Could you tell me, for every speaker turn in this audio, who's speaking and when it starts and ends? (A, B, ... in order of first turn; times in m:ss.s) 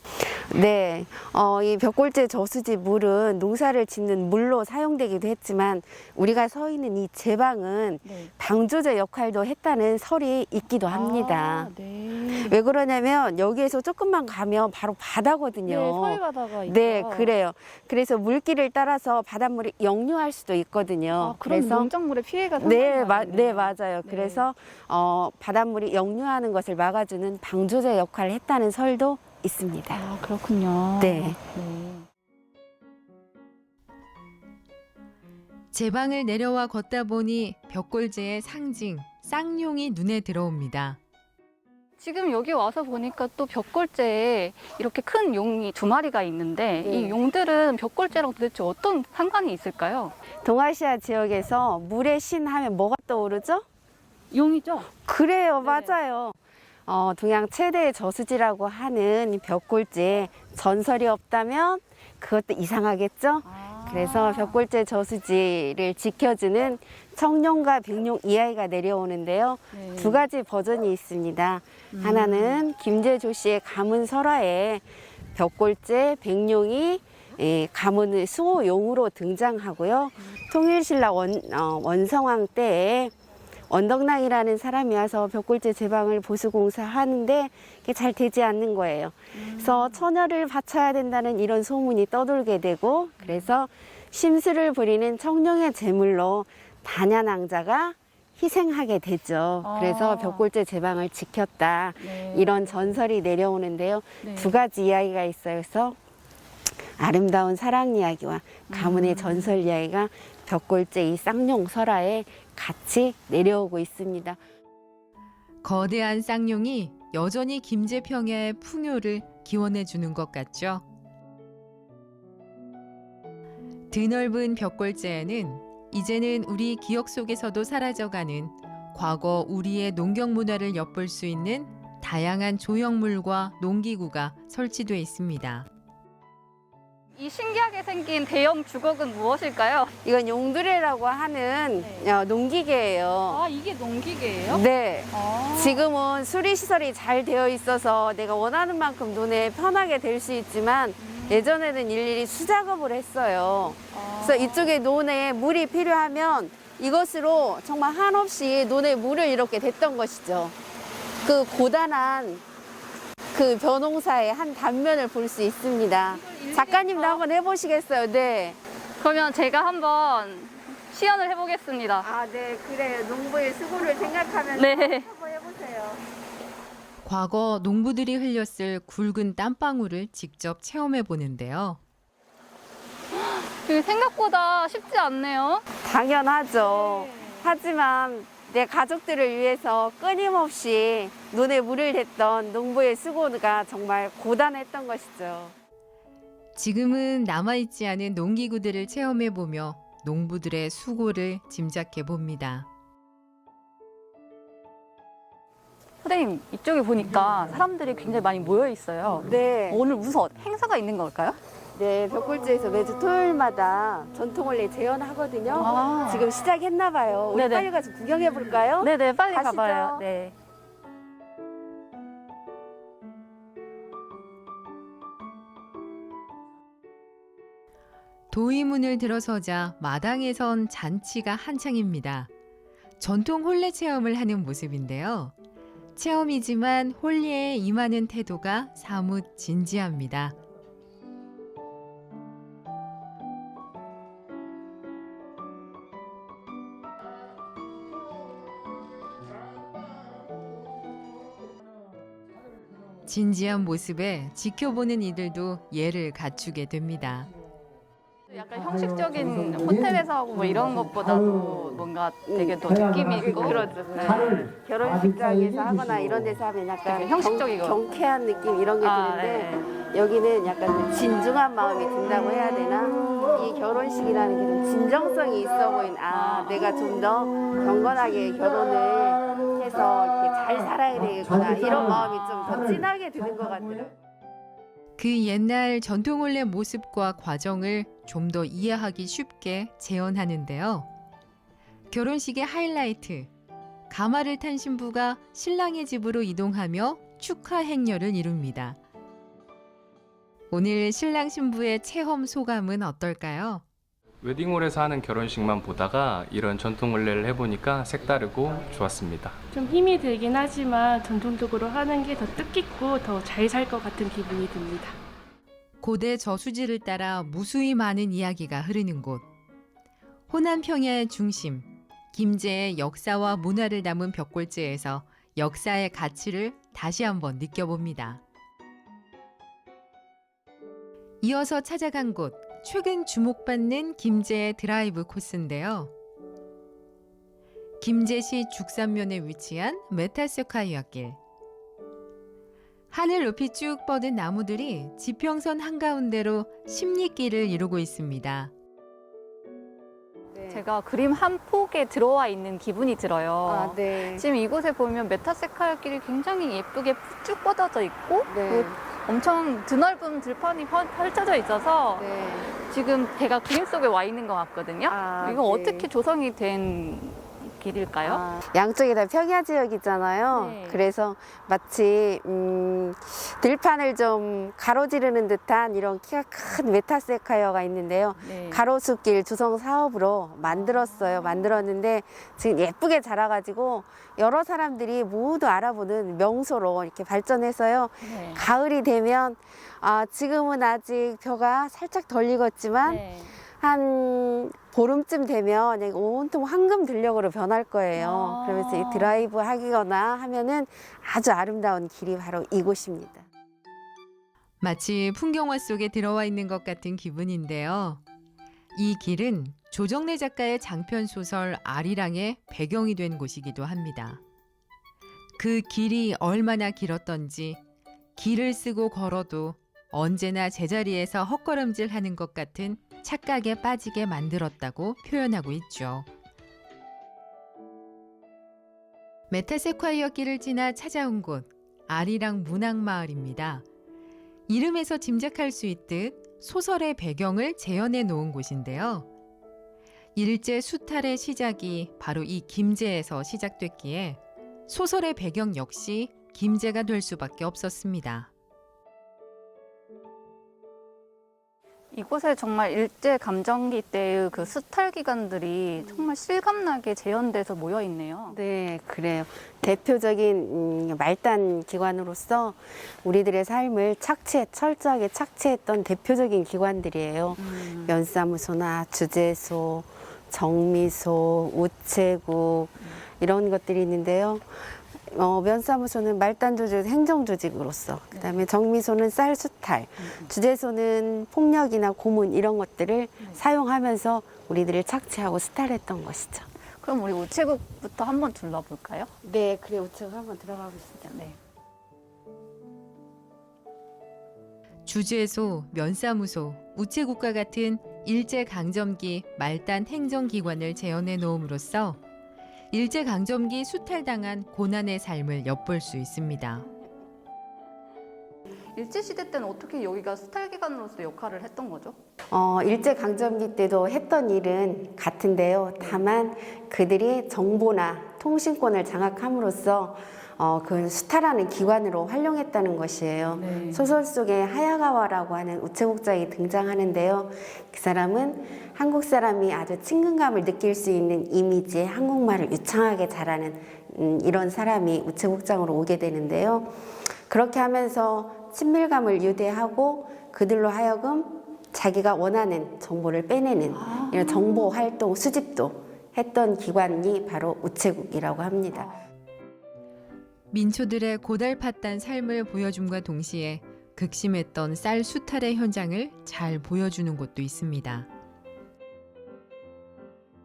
0:00.2-0:11.7 A
0:08.0-0:08.3 B
0:10.9-0:12.6 B
0:12.3-0:21.9 A
0:15.6-0:17.3 B
0:21.2-0:24.5 B
0:22.6-0:30.1 A
0:29.9-0:32.1 B
0:31.0-0:31.4 A
0:35.7-0:41.0 C
0:42.0-0:50.2 B
0:46.8-0:47.2 A
0:50.4-0:53.7 A
0:54.3-0:54.9 B
0:55.0-1:14.8 A
0:55.6-0:56.0 B
1:03.4-1:04.6 B
1:09.7-1:10.2 B
1:11.9-1:12.6 B
1:15.4-1:23.1 A
1:23.7-1:46.0 A
1:29.3-1:30.0 B
1:33.2-1:33.5 B
1:39.6-1:40.5 B
1:42.0-1:43.0 B
1:44.2-1:44.6 B
1:46.8-1:54.4 A
1:48.7-1:49.5 B
1:55.6-2:00.8 C
2:03.9-2:15.7 C
2:17.2-2:19.9 B
2:20.0-2:23.4 A
2:21.8-2:22.1 B
2:23.3-2:25.9 B
2:24.5-2:40.6 A
2:31.0-2:31.6 B
2:33.9-2:34.7 B
2:41.2-2:42.4 A
2:43.3-2:48.6 A
2:46.1-2:47.2 B
2:49.0-2:52.1 B
2:52.0-2:56.0 A
2:54.5-2:55.1 B
2:57.0-3:01.8 C
3:03.1-3:05.6 B
3:05.8-3:15.6 A
3:06.7-3:07.5 B
3:16.6-3:22.7 C
3:26.0-3:31.4 B
3:29.2-3:29.8 A
3:31.8-3:40.0 A
3:35.6-3:36.3 B
3:37.3-3:37.7 B
3:38.8-3:40.4 B
3:48.3-3:52.3 C
3:53.0-3:55.3 C
3:56.0-4:00.4 C
4:13.0-4:17.3 C
4:18.3-4:24.4 B
4:22.3-4:22.6 A
4:23.2-4:43.9 A
4:26.9-4:27.8 B
4:28.8-4:29.8 B
4:36.1-4:36.8 B
4:41.9-4:42.6 B
4:45.0-4:50.9 C
4:51.9-4:53.3 C
4:53.9-4:58.8 C
5:00.5-5:03.6 C
5:04.2-5:09.4 D
5:09.5-5:15.0 E
5:15.8-5:19.3 C
5:20.3-5:28.2 C
5:31.2-5:35.9 C
5:37.8-5:41.2 C
5:42.9-5:48.5 C
5:50.4-5:50.6 A
5:50.5-6:08.2 B
5:53.5-5:54.2 A
5:58.3-5:58.8 A
6:02.0-6:02.5 A
6:04.9-6:05.9 A
6:08.0-6:43.3 A
6:10.3-6:10.8 B
6:18.2-6:18.6 B
6:20.5-6:21.5 B
6:28.0-6:28.4 B
6:32.8-6:33.4 B
6:38.0-6:39.2 B
6:44.6-6:48.0 C
6:48.8-6:54.2 C
6:55.4-6:57.6 C
6:58.2-7:06.1 C
7:09.3-7:13.6 C
7:14.5-7:19.1 C
7:20.2-7:28.3 C
7:31.9-7:38.4 B
7:38.3-8:06.5 A
7:47.4-7:48.0 B
7:58.1-7:58.4 B
8:00.0-8:00.3 B
8:06.8-8:09.1 B
8:09.2-8:11.2 A
8:11.1-8:11.4 B
8:14.9-8:22.0 C
8:22.7-8:26.7 C
8:28.8-8:32.0 B
8:32.3-8:56.7 A
8:43.4-8:43.9 B
8:57.3-9:08.9 A
9:03.7-9:04.5 B
9:08.7-9:09.0 B
9:10.5-9:18.1 C